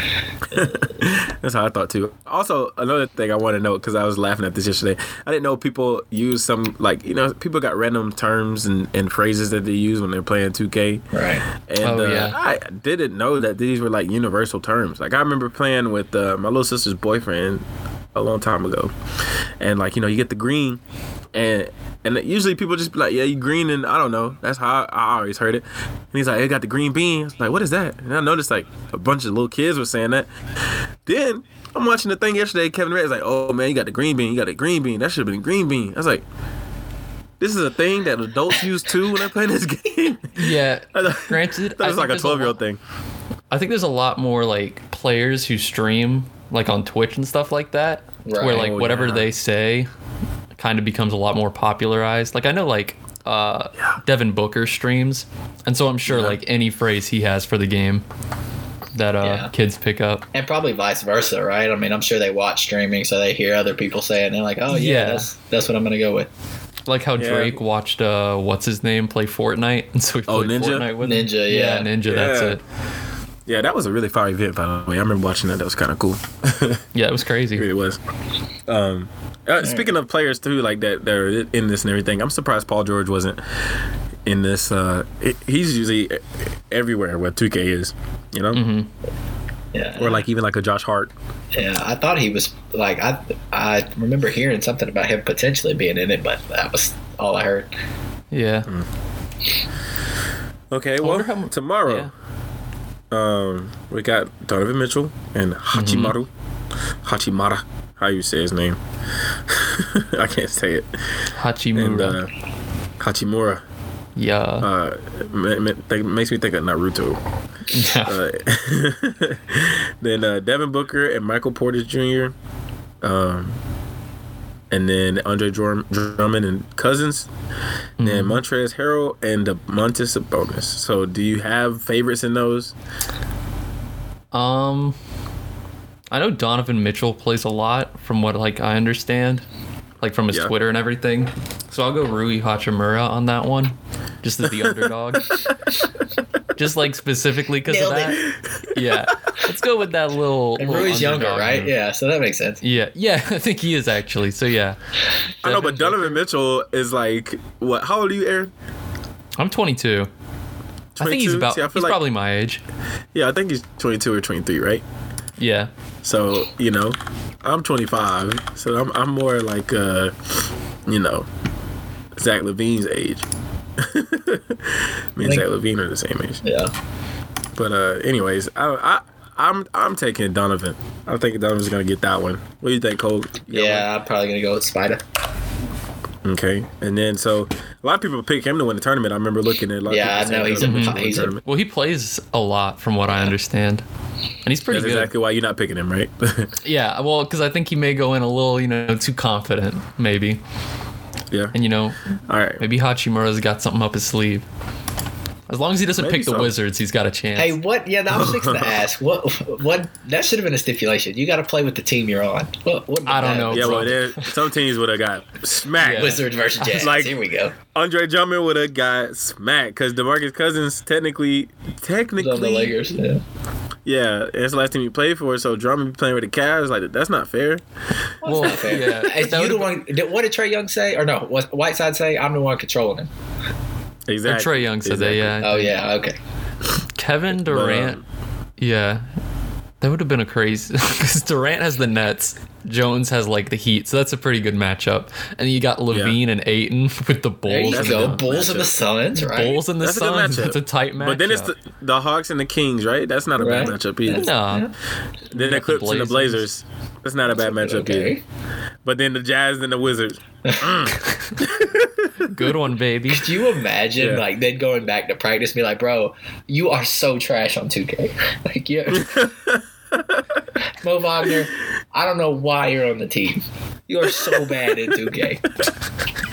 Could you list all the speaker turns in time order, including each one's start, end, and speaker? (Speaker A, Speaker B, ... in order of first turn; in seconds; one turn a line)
Speaker A: 0.5-11.1
Speaker B: 0.6-0.8
Speaker B: 11.1-11.4
Speaker A: 11.6-18.9
Speaker C: 11.8-12.4
Speaker A: 19.6-20.8
Speaker A: 21.3-30.3
Speaker A: 31.1-36.3
Speaker A: 37.4-42.8
Speaker C: 40.4-42.6
Speaker C: 43.5-49.9
Speaker B: 48.2-48.7
Speaker A: 48.4-49.3
Speaker C: 50.6-58.1
Speaker A: 56.1-56.4
Speaker C: 58.9-60.2
Speaker B: 59.2-59.5
Speaker B: 60.3-66.3
Speaker C: 64.7-65.3
Speaker C: 66.9-72.6
Speaker A: 67.2-67.6
Speaker A: 70.3-70.9
Speaker B: 71.0-71.9
Speaker A: 72.0-72.6
Speaker A: 73.5-76.8
Speaker C: 77.0-77.7
Speaker A: 77.6-78.0
Speaker A: 78.7-83.4
Speaker B: 79.6-79.9
Speaker A: 84.3-88.6
Speaker C: 88.5-88.9
Speaker B: 89.7-90.2
Speaker A: 90.0-91.1
Speaker B: 91.5-97.7
Speaker C: 98.3-98.7
Speaker A: 100.7-102.1
Speaker C: 101.0-102.1
Speaker A: 103.1-106.3
Speaker C: 105.7-106.1
Speaker A: 107.0-108.8
Speaker A: 109.5-111.2
Speaker C: 111.4-112.2
Speaker A: 111.8-112.3
Speaker A: 113.0-113.6
Speaker C: 114.2-114.7
Speaker A: 114.6-117.2
Speaker C: 117.7-118.2
Speaker A: 118.0-122.3
Speaker A: 123.0-123.6
Speaker A: 124.7-127.3
Speaker C: 128.0-128.4
Speaker A: 128.0-132.8
Speaker C: 134.3-135.0
Speaker C: 136.1-139.4
Speaker C: 140.0-145.5
Speaker A: 144.4-145.2
Speaker C: 146.6-151.7
Speaker B: 147.7-148.3
Speaker A: 148.4-149.1
Speaker B: 150.6-152.6
Speaker C: 152.6-154.8
Speaker C: 155.4-156.2
Speaker A: 155.4-158.5
Speaker C: 159.4-160.1
Speaker A: 160.9-162.0
Speaker C: 161.0-162.6
Speaker A: 163.1-164.8
Speaker C: 165.4-165.7
Speaker A: 166.0-171.3
Speaker A: 172.1-176.4
Speaker B: 176.4-176.7
Speaker A: 177.6-183.9
Speaker B: 183.5-185.0
Speaker A: 186.2-191.4
Speaker B: 189.9-191.4
Speaker C: 190.6-193.8
Speaker B: 193.1-193.3
Speaker C: 194.4-195.1
Speaker A: 194.7-196.5
Speaker C: 196.6-200.4
Speaker C: 201.5-202.0
Speaker A: 202.3-202.6
Speaker C: 202.6-204.5
Speaker C: 205.5-207.6
Speaker A: 206.0-206.5
Speaker B: 207.4-214.1
Speaker A: 208.1-208.8
Speaker C: 213.1-214.2
Speaker A: 213.5-216.2
Speaker C: 215.8-216.8
Speaker B: 215.9-217.6
Speaker A: 216.8-222.8
Speaker B: 222.2-223.2
Speaker A: 223.8-228.1
Speaker B: 228.2-233.1
Speaker C: 228.2-229.7
Speaker A: 234.1-235.4
Speaker C: 234.2-235.8
Speaker B: 235.4-236.2
Speaker C: 237.0-238.0
Speaker A: 237.3-238.0
Speaker C: 238.6-239.1
Speaker C: 239.8-248.2
Speaker A: 245.9-246.2
Speaker B: 247.5-249.6
Speaker A: 247.7-248.7
Speaker C: 249.2-251.5
Speaker A: 249.8-254.3
Speaker B: 253.4-254.7
Speaker C: 254.1-254.7
Speaker A: 255.3-258.1
Speaker C: 255.3-256.4
Speaker B: 257.3-258.2
Speaker A: 258.9-262.3
Speaker B: 260.4-260.9
Speaker C: 261.0-261.4
Speaker C: 262.2-263.3
Speaker B: 263.1-269.2
Speaker A: 264.0-264.2
Speaker A: 268.9-270.4
Speaker B: 270.8-275.5